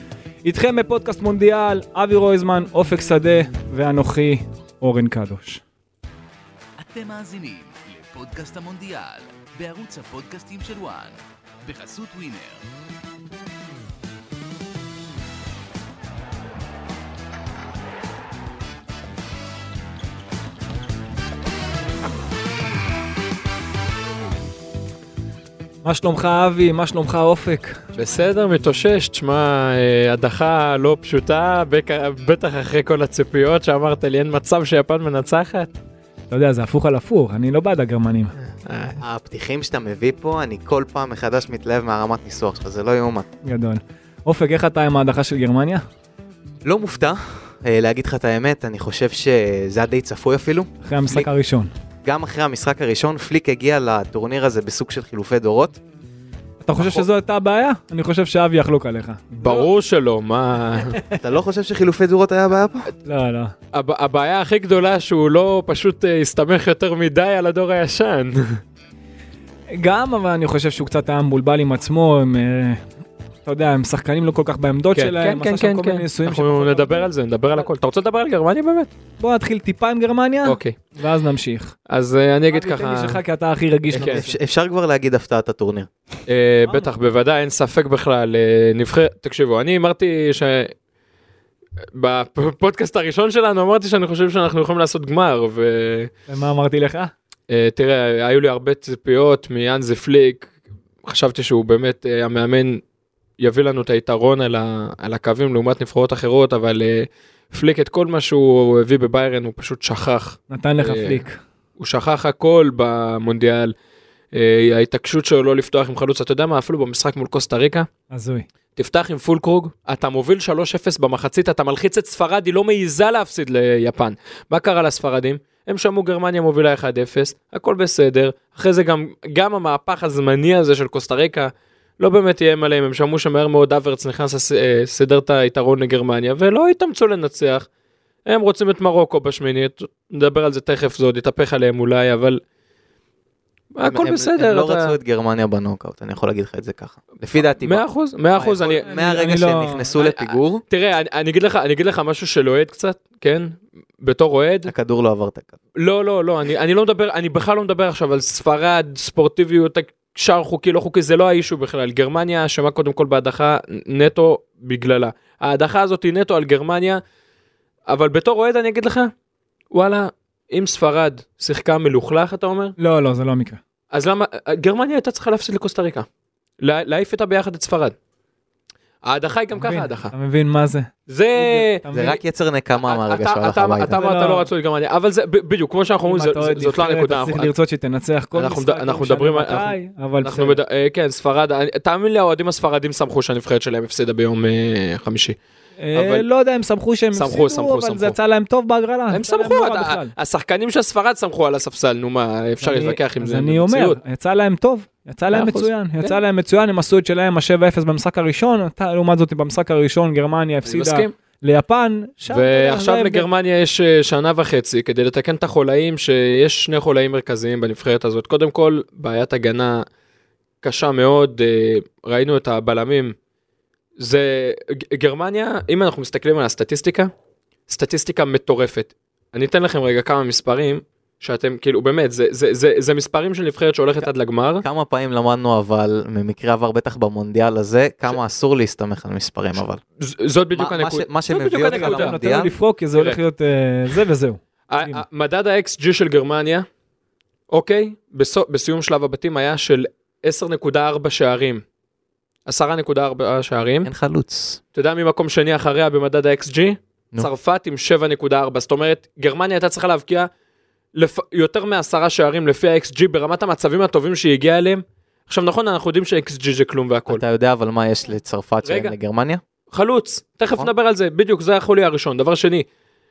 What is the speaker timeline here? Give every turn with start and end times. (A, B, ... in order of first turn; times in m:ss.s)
0:00.4-0:05.6 A
0:06.8-0:12.7 B
0:25.8-0:27.8 A
0:27.9-0:35.7 C
0:36.3-0:38.3 A
0:38.6-0:39.0 C
0:39.0-0:43.3 D
0:43.4-0:45.8 A
0:46.6-0:51.3 D
0:50.8-0:51.7 A
0:52.0-0:55.8 D
0:56.6-0:59.7 A
0:59.4-1:01.0 C
1:01.2-1:02.9 D
1:03.0-1:03.5 A
1:03.7-1:08.6 C
1:09.7-1:12.8 A
1:13.4-1:17.7 A
1:14.9-1:18.9 C
1:19.2-1:21.7 A
1:20.4-1:20.8 C
1:21.9-1:23.2 C
1:22.5-1:24.3 A
1:23.9-1:25.9 D
1:23.9-1:24.2 C
1:26.3-1:30.7 C
1:26.6-1:26.9 A
1:31.9-1:36.1 C
1:36.3-1:37.1 A
1:37.5-1:40.5 C
1:41.0-1:42.8 C
1:43.4-1:51.2 C
1:50.5-1:51.4 A
1:51.8-1:53.7 C
1:54.3-1:57.9 C
1:58.1-1:58.5 A
1:58.8-2:17.7 C
2:18.2-2:22.4 C
2:23.7-2:24.9 C
2:23.8-2:27.8 D
2:27.3-2:28.9 C
2:28.4-2:30.6 D
2:28.9-2:29.8 A
2:29.9-2:34.7 C
2:34.6-2:35.5 D
2:35.8-2:47.0 C
2:47.9-2:49.1 C
2:49.7-2:52.7 C
2:52.8-2:53.6 A
2:53.9-2:56.0 C
2:56.6-2:58.0 C
2:59.0-3:00.1 C
2:59.5-3:02.2 A
3:01.1-3:01.8 C
3:01.9-3:04.0 D
3:02.8-3:07.5 C
3:03.9-3:04.5 A
3:06.0-3:10.6 A
3:08.3-3:15.4 C
3:15.8-3:20.1 A
3:15.9-3:16.2 C
3:17.1-3:18.2 C
3:19.1-3:24.0 C
3:22.6-3:33.3 A
3:25.3-3:26.2 C
3:30.6-3:31.1 C
3:32.3-3:39.8 C
3:40.6-3:43.1 C
3:44.0-3:47.1 C
3:47.7-3:54.6 C
3:54.6-3:59.8 D
4:00.0-4:02.1 C
4:00.5-4:02.5 D
4:01.6-4:05.0 A
4:04.7-4:06.6 C
4:07.5-4:11.6 C
4:12.4-4:13.9 C
4:13.8-4:14.6 D
4:14.7-4:20.3 C
4:20.9-4:27.2 C
4:27.1-4:29.4 D
4:28.6-4:28.9 C
4:29.7-4:32.6 C